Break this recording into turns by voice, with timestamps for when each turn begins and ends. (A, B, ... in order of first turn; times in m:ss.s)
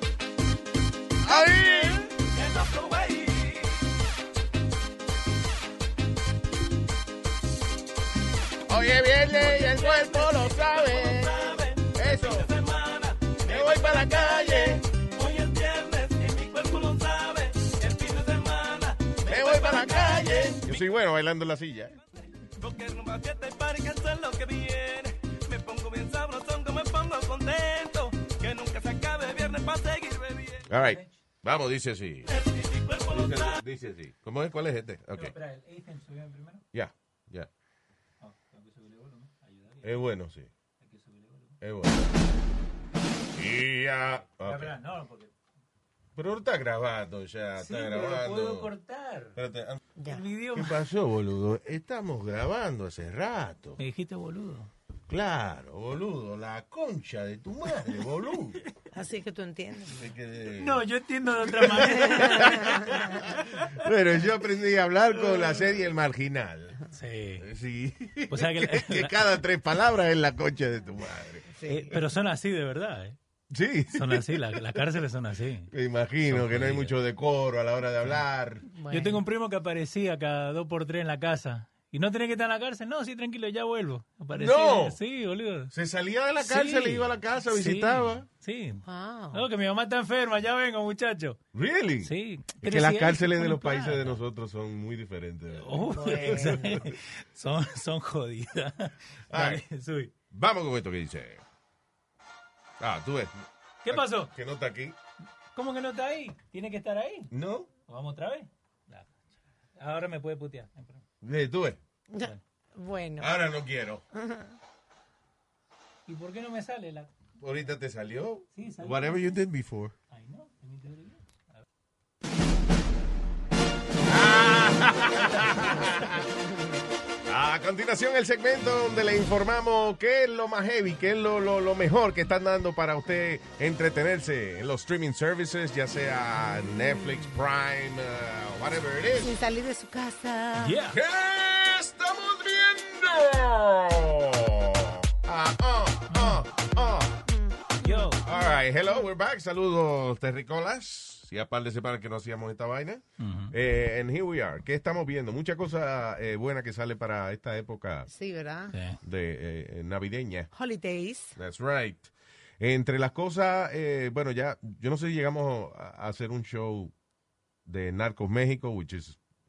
0:01.2-0:02.1 A
0:02.2-0:03.8 B
0:08.7-0:12.5 A
0:09.3-0:10.1 C
0:10.4-0:20.5 B
0:13.4-0:14.8 A
0:19.2-0:22.0 A
0:22.7-0:29.9 B
0:30.7-0:31.1 C
0:30.7-0:32.4 A
0:33.1-0:35.3 A
0:33.1-0:33.5 B
0:35.1-0:36.6 C
0:36.7-0:37.5 A
0:38.2-0:40.0 C
0:39.8-0:40.5 A
0:40.8-0:41.6 C
0:41.6-0:42.1 A
0:43.3-0:44.7 A
0:44.3-0:45.3 C
0:46.2-0:48.7 A
0:47.6-0:49.4 C
0:49.4-0:49.8 A
0:50.0-0:50.2 D
0:50.1-0:50.8 C
0:50.5-0:53.8 A
0:53.8-0:54.7 C
0:55.1-0:58.6 A
0:58.9-1:00.1 D
0:59.9-1:00.8 A
1:00.5-1:03.7 C
1:01.4-1:06.8 A
1:06.9-1:07.4 C
1:07.4-1:11.9 A
1:08.3-1:09.4 C
1:11.6-1:11.9 D
1:11.6-1:13.2 C
1:13.5-1:14.8 A
1:13.9-1:15.7 C
1:15.7-1:18.7 A
1:16.2-1:17.0 C
1:18.7-1:19.2 D
1:18.9-1:25.7 C
1:24.3-1:25.0 A
1:25.7-1:28.3 A
1:26.4-1:31.4 C
1:28.8-1:29.4 D
1:31.5-1:36.9 A
1:32.0-1:34.2 C
1:35.5-1:40.1 C
1:35.9-1:36.8 D
1:39.3-1:39.6 A
1:40.3-1:41.4 A
1:42.8-1:43.3 A
1:43.8-1:44.3 C
1:43.9-1:45.0 A
1:45.5-1:47.3 C
1:47.3-1:47.7 A
1:47.9-1:49.1 C
1:49.8-1:51.0 C
1:51.2-1:51.8 A
1:52.1-1:53.3 D
1:53.2-1:54.0 A
1:54.1-1:54.5 D
1:56.1-1:57.1 C
1:57.4-1:59.9 A
1:58.5-1:59.3 C
2:00.1-2:01.2 C
2:04.0-2:06.2 A
2:05.4-2:06.2 C
2:07.3-2:19.4 A
2:19.2-2:20.8 D
2:20.6-2:21.0 C
2:20.9-2:27.1 A
2:26.1-2:26.4 C
2:27.3-2:28.2 D
2:27.8-2:28.2 C
2:28.2-2:38.1 A
2:33.2-2:33.5 C
2:38.1-2:38.8 D
2:38.7-2:39.0 C
2:39.0-2:40.5 A
2:40.5-2:41.4 D
2:41.3-2:46.9 A
2:47.6-2:49.2 A